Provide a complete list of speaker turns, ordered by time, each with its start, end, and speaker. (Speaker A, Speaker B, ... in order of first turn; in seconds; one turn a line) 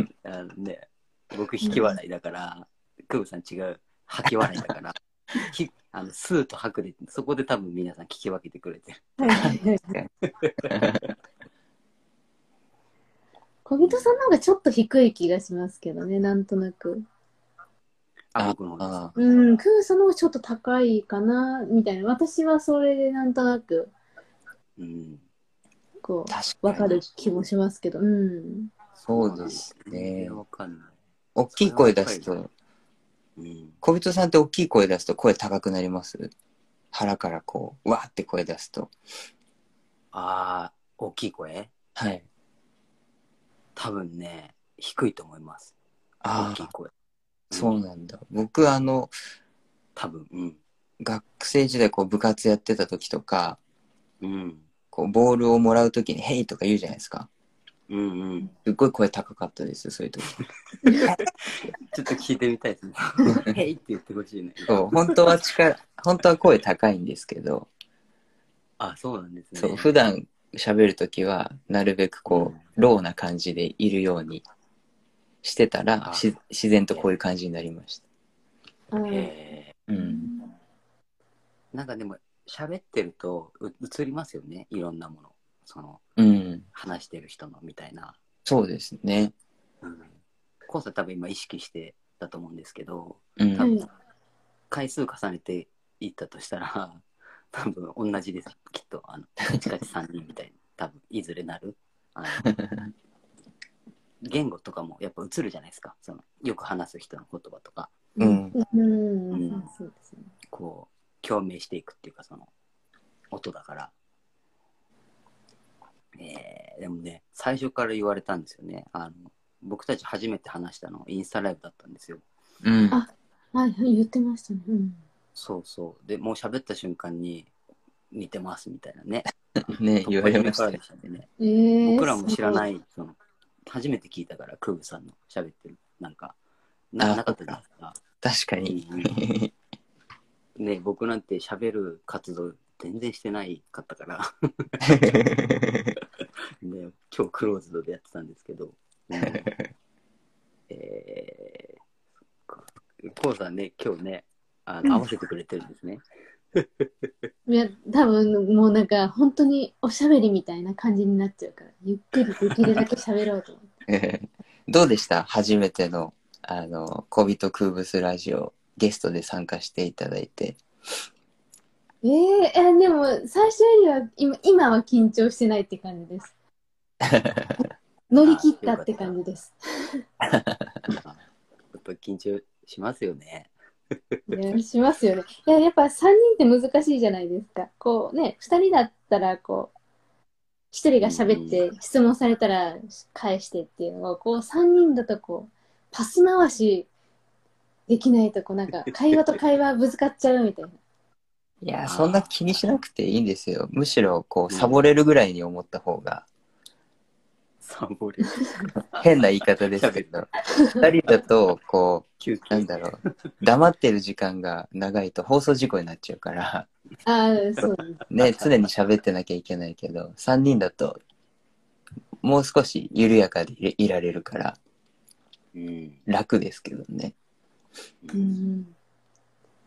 Speaker A: 0.2-9.2
Speaker B: 9.2-9.9
Speaker C: 9.3-10.1
Speaker A: 10.4-11.1
Speaker C: 10.7-11.0
Speaker B: 13.7-17.1
Speaker A: 13.8-14.1
Speaker A: 18.3-19.2
Speaker C: 18.4-19.1
Speaker B: 19.2-23.9
Speaker A: 24.8-25.2
Speaker B: 26.0-28.7
Speaker C: 26.3-26.9
Speaker C: 29.0-30.4
Speaker A: 29.1-31.0
Speaker C: 31.4-32.5
Speaker A: 31.5-32.3
Speaker A: 33.4-33.8
Speaker C: 33.8-36.3
Speaker C: 36.9-38.9
Speaker A: 40.1-41.7
Speaker C: 42.0-42.3
Speaker A: 43.8-45.7
Speaker C: 46.2-46.7
Speaker A: 46.4-46.9
Speaker A: 47.5-47.8
Speaker C: 47.5-49.1
Speaker A: 50.0-50.6
Speaker C: 51.0-53.6
Speaker A: 54.2-54.7
Speaker C: 54.9-57.3
Speaker A: 57.9-58.5
Speaker C: 58.6-60.3
Speaker A: 60.8-65.3
Speaker C: 60.9-61.2
Speaker C: 64.7-67.7
Speaker A: 68.8-69.9
Speaker C: 69.6-74.4
Speaker A: 72.3-72.7
Speaker C: 75.4-78.0
Speaker B: 78.9-79.3
Speaker A: 79.1-79.8
Speaker C: 79.9-80.3
Speaker B: 80.0-80.5
Speaker A: 81.7-86.0
Speaker C: 86.2-86.7
Speaker A: 86.7-88.2
Speaker C: 88.5-89.3
Speaker A: 89.8-93.8
Speaker C: 93.4-93.7
Speaker B: 93.6-93.9
Speaker A: 94.7-102.5
Speaker C: 102.4-102.9
Speaker A: 104.2-108.0
Speaker B: 108.2-110.3
Speaker C: 108.2-108.5
Speaker A: 109.3-109.7
Speaker A: 110.5-112.5
Speaker A: 113.3-113.9
Speaker A: 116.2-122.2
Speaker C: 122.6-123.0
Speaker B: 122.9-125.0
Speaker A: 125.4-127.5
Speaker A: 128.1-131.3
Speaker C: 129.6-130.8
Speaker B: 131.4-132.7
Speaker A: 131.8-136.3
Speaker A: 136.9-138.0
Speaker C: 137.0-137.6
Speaker C: 138.2-139.5
Speaker A: 138.7-139.1
Speaker A: 140.6-144.9
Speaker C: 144.9-145.9
Speaker A: 146.6-149.5
Speaker C: 149.2-149.5
Speaker A: 150.7-151.8
Speaker A: 152.5-156.0
Speaker A: 156.6-157.1
Speaker B: 157.5-163.7
Speaker C: 163.9-170.6
Speaker B: 172.0-176.3
Speaker C: 177.0-177.6
Speaker B: 178.1-180.0
Speaker A: 178.2-179.2
Speaker C: 180.2-180.8
Speaker A: 180.9-181.2
Speaker A: 181.7-184.2
Speaker B: 184.3-189.7
Speaker B: 190.7-196.9
Speaker A: 191.0-191.6
Speaker B: 197.9-200.8
Speaker C: 201.6-206.3
Speaker A: 201.8-202.7
Speaker A: 204.5-204.9
Speaker A: 207.6-209.1
Speaker C: 209.0-216.7
Speaker A: 209.7-210.3
Speaker A: 212.2-212.7
Speaker B: 217.1-218.0
Speaker A: 217.6-218.8
Speaker C: 218.1-221.0
Speaker C: 222.2-224.6
Speaker A: 225.5-226.0
Speaker C: 226.1-227.2
Speaker A: 228.0-228.4
Speaker B: 228.1-228.7